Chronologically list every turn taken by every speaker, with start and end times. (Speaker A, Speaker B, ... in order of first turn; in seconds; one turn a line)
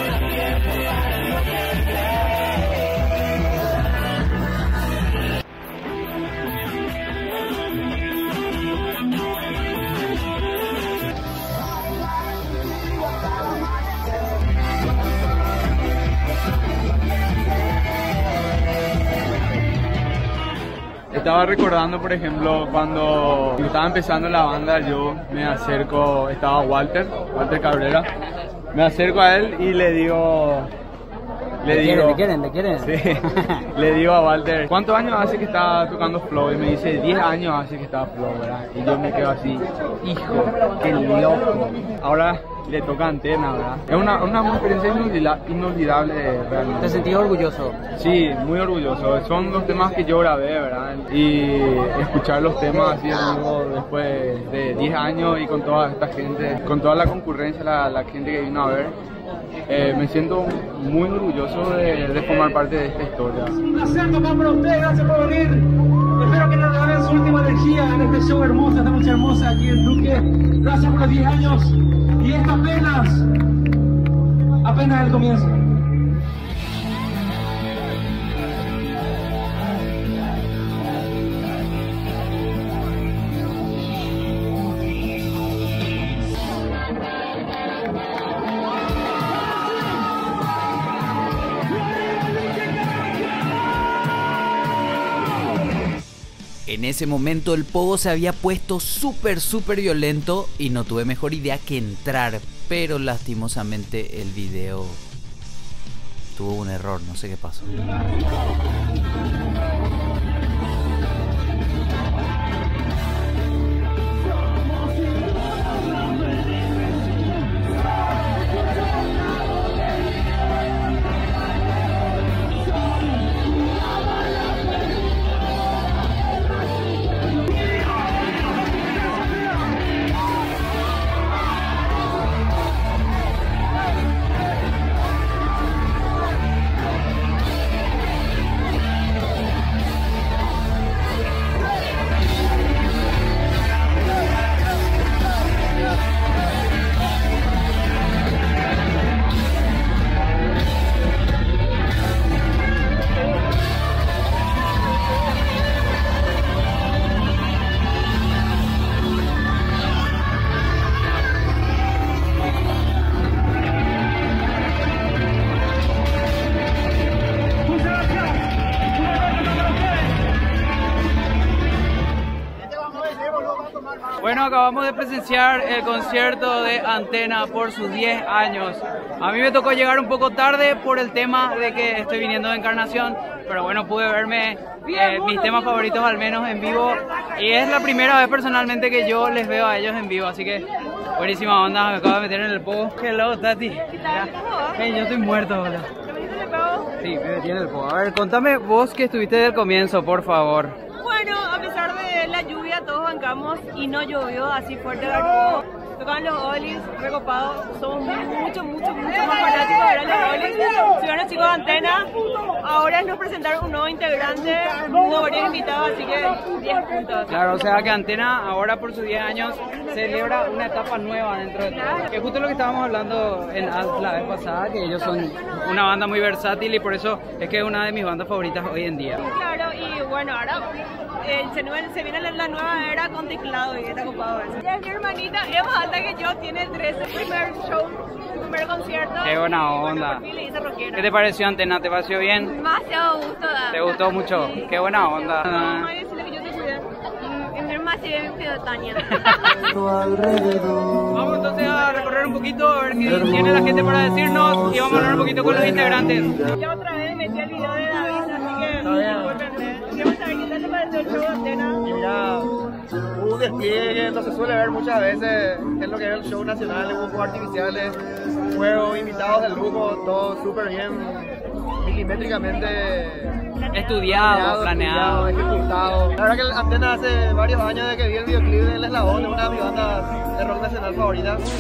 Speaker A: 21.1-28.1
Speaker A: 28.7-30.7
Speaker A: 31.6-47.2
Speaker B: 31.7-32.9
Speaker B: 46.8-47.8
Speaker A: 47.9-59.0
Speaker A: 59.7-63.6
Speaker C: 63.6-73.3
Speaker C: 74.6-75.6
Speaker D: 96.7-105.0
Speaker D: 106.3-107.8
Speaker B: 174.2-190.7
Speaker B: 191.2-195.9
Speaker E: 194.0-194.8
Speaker E: 196.1-196.9
Speaker B: 197.0-200.8
Speaker E: 201.0-217.4
Speaker B: 217.3-229.2
Speaker E: 229.2-230.7
Speaker E: 231.2-241.0
Speaker B: 239.2-240.2
Speaker B: 240.9-242.6
Speaker E: 243.0-243.7
Speaker B: 243.7-245.9
Speaker E: 245.4-249.2
Speaker B: 249.1-249.5
Speaker B: 251.1-256.3
Speaker E: 256.6-261.8
Speaker F: 261.9-262.5
Speaker F: 263.2-268.0
Speaker F: 268.5-273.4
Speaker B: 273.7-275.3
Speaker F: 274.1-281.4